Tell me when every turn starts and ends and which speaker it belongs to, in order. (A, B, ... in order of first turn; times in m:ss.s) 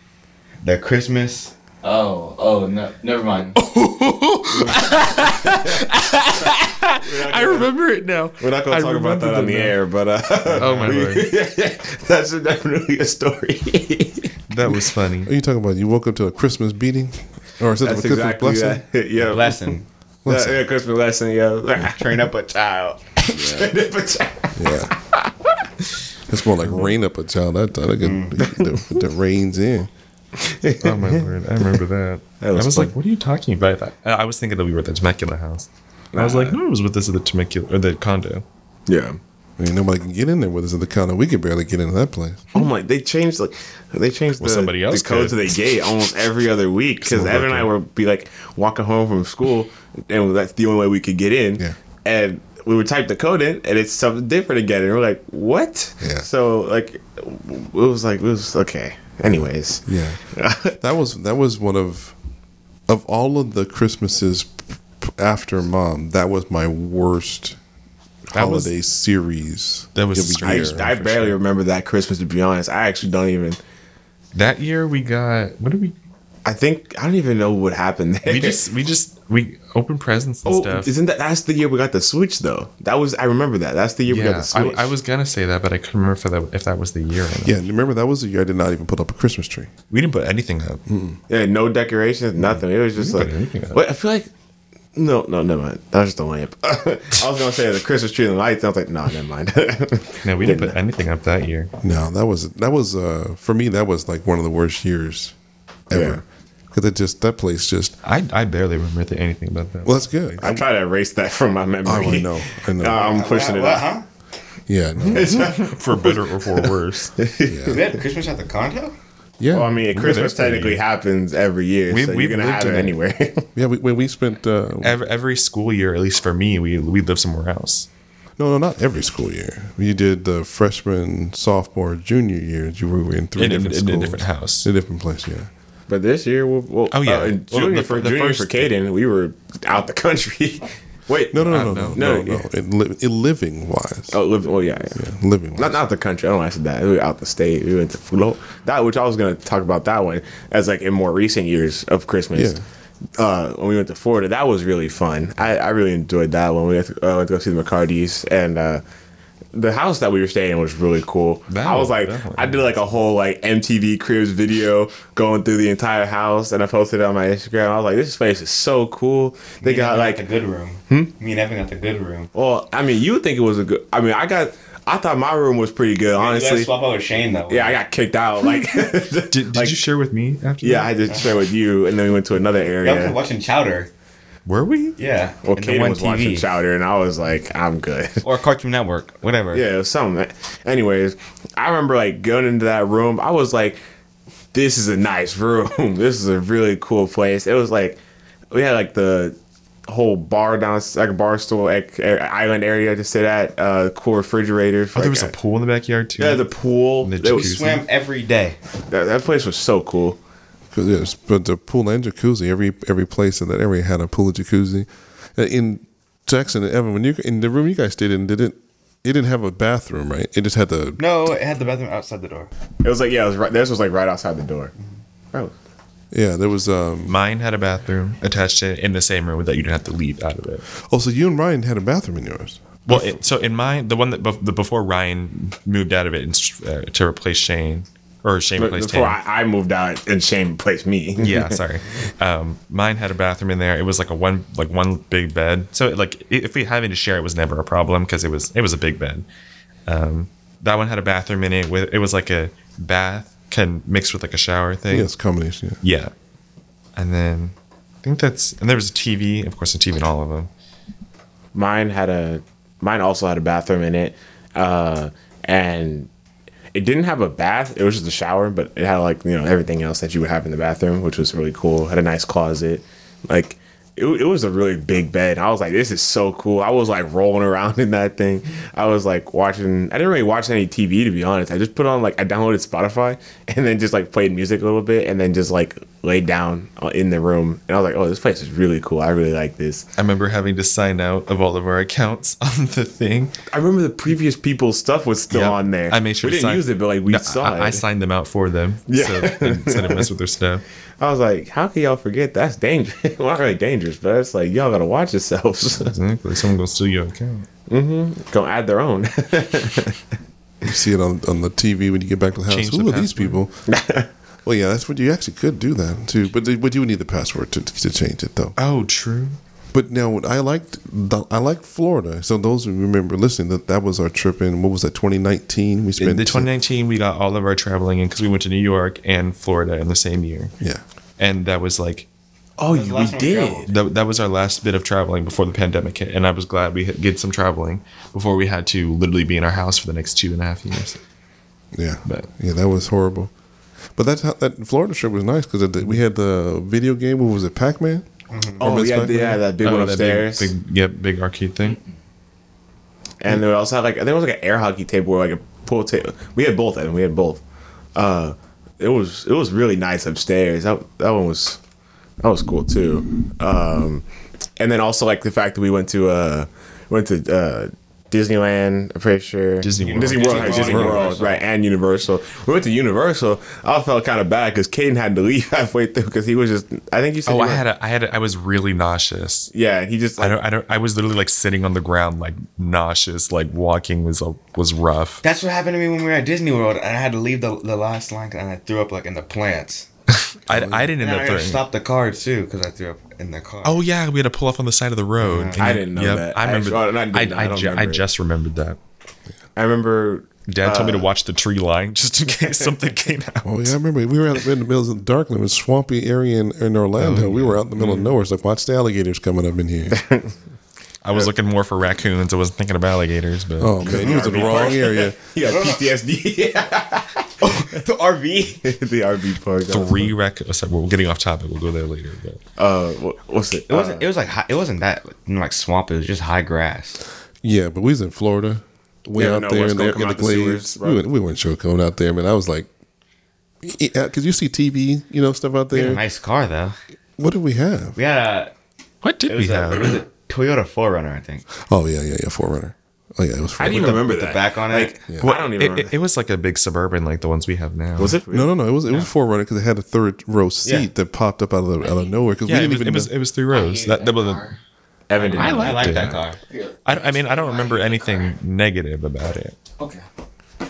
0:00.6-0:01.5 A
0:01.8-0:03.6 B
0:03.6-0:09.8 C
0:07.0-0:07.7 D
0:08.4-0:14.3 D
0:10.5-0:11.3 C
0:14.5-0:15.3 C
0:14.6-0:18.8 E
0:17.8-0:22.3 D
0:19.2-0:19.9 A
0:20.2-0:20.6 E
0:21.9-0:23.7 A
0:23.3-0:25.3 D
0:24.6-0:24.9 E
0:26.3-0:29.9 E
0:26.6-0:26.9 C
0:28.0-0:28.3 A
0:28.4-0:29.0 D
0:30.4-0:31.6 D
0:30.8-0:38.4 C
0:32.4-0:32.9 D
0:36.1-0:36.6 D
0:38.9-0:39.2 D
0:39.6-0:42.5 E
0:42.5-1:00.8 D
0:44.4-0:45.6 C
0:47.0-0:47.7 C
0:56.0-0:56.3 E
0:59.3-1:00.2 E
1:00.8-1:02.1 E
1:02.9-1:07.6 E
1:08.3-1:10.8 E
1:08.3-1:08.7 C
1:10.0-1:11.4 C
1:10.4-1:13.6 D
1:14.4-1:16.0 C
1:16.4-1:18.6 D
1:18.2-1:20.9 C
1:20.4-1:24.9 D
1:24.1-1:27.6 C
1:27.4-1:29.7 E
1:29.9-1:30.8 C
1:30.9-1:31.2 E
1:31.3-1:34.3 D
1:32.9-1:33.8 C
1:35.0-1:40.8 D
1:40.2-1:41.7 C
1:41.8-1:45.3 E
1:45.9-1:47.9 E
1:45.9-1:46.2 D
1:48.0-1:49.9 C
1:49.8-1:50.6 E
1:50.4-1:53.9 D
1:51.8-1:53.0 E
1:52.9-1:54.0 A
1:54.7-1:55.4 E
1:55.0-1:57.1 C
1:55.1-1:56.7 D
1:57.2-1:58.0 D
1:57.5-1:57.8 E
1:57.7-1:59.0 A
1:59.4-2:00.6 E
1:59.5-2:03.5 D
1:59.9-2:00.8 C
2:01.9-2:03.0 C
2:03.6-2:05.0 E
2:04.8-2:07.9 C
2:08.4-2:15.5 E
2:13.4-2:14.7 C
2:15.9-2:22.4 D
2:16.9-2:18.7 C
2:21.3-2:24.2 E
2:21.5-2:22.2 C
2:24.1-2:25.0 D
2:25.0-2:25.8 E
2:25.6-2:32.6 D
2:32.3-2:32.6 E
2:33.2-2:38.8 D
2:39.5-2:50.2 D
2:41.5-2:42.8 C
2:49.6-2:52.3 A
2:52.3-2:56.7 D
2:56.2-2:57.8 A
2:57.5-2:59.8 D
2:59.3-3:00.9 C
3:00.6-3:03.2 D
3:02.8-3:03.9 A
3:04.5-3:05.0 C
3:05.0-3:06.5 A
3:05.4-3:08.2 D
3:08.2-3:09.7 A
3:09.5-3:13.8 D
3:14.5-3:18.0 D
3:18.5-3:19.4 D
3:19.9-3:25.3 D
3:24.9-3:26.5 C
3:26.2-3:27.6 D
3:27.0-3:27.8 C
3:27.2-3:28.6 A
3:28.9-3:30.2 D
3:30.7-3:41.0 E
3:41.0-3:42.5 A
3:42.8-3:44.7 D
3:46.1-3:47.1 E
3:47.1-3:50.6 C
3:50.9-3:53.0 E
3:52.9-3:59.2 C
3:58.6-4:01.6 D
4:01.2-4:09.2 C
4:09.9-4:15.1 C
4:14.9-4:15.8 E
4:15.8-4:16.1 C
4:17.0-4:20.5 C
4:21.5-4:26.1 D
4:26.7-4:49.8 D
4:50.0-4:53.4 C
4:53.5-4:57.8 D
4:55.3-5:00.6 C
4:58.9-5:00.1 D
5:01.0-5:06.0 D
5:05.8-5:07.5 C
5:07.7-5:10.0 D
5:10.6-5:13.6 E
5:12.5-5:13.4 C
5:13.7-5:14.1 D
5:14.4-5:18.6 E
5:18.6-5:19.4 C
5:19.7-5:26.5 E
5:26.0-5:30.5 C
5:31.2-5:32.1 C
5:32.6-5:33.7 D
5:32.7-5:33.7 A
5:33.7-5:41.0 C
5:41.8-5:43.3 E
5:44.0-5:48.1 E
5:48.3-5:48.6 A
5:48.6-5:49.4 E
5:48.6-5:50.5 D
5:49.6-5:51.8 C
5:53.2-5:57.4 D
5:58.0-6:01.6 D
6:02.2-6:04.0 D
6:04.6-6:17.6 D
6:09.6-6:11.2 C
6:09.8-6:11.4 A
6:10.6-6:11.0 E
6:17.3-6:19.5 C
6:19.5-6:20.4 D
6:20.2-6:25.2 C
6:25.2-6:29.9 A
6:30.3-6:31.6 C
6:30.5-6:30.9 E
6:31.0-6:33.8 A
6:33.6-6:38.8 C
6:35.2-6:35.6 A
6:35.6-6:38.0 D
6:39.6-6:41.1 D
6:40.5-6:43.7 C
6:43.4-6:50.0 E
6:47.0-6:47.6 C
6:47.8-6:48.0 D
6:49.9-6:50.4 D
6:51.0-6:54.6 C
6:53.6-6:55.2 E
6:53.8-6:57.8 D
6:55.5-6:55.8 A
6:57.4-6:58.6 A
6:58.6-7:00.1 D
6:59.7-7:02.4 C
7:02.6-7:04.1 D
7:03.7-7:07.0 A
7:07.4-7:12.7 E
7:09.2-7:11.0 D
7:13.6-7:16.0 E
7:15.7-7:16.8 A
7:17.2-7:18.0 E
7:18.0-7:18.5 A
7:19.0-7:20.0 C
7:19.3-7:21.5 A
7:21.7-7:24.0 E
7:23.6-7:25.9 D
7:23.9-7:25.0 A
7:25.2-7:28.2 C
7:28.0-7:28.5 D
7:28.3-7:33.1 E
7:32.5-7:34.5 C
7:33.6-7:34.5 B
7:33.7-7:34.4 A
7:35.1-7:36.2 D
7:35.2-7:37.4 A
7:35.3-7:36.2 C
7:36.8-7:39.6 C
7:37.4-7:37.8 B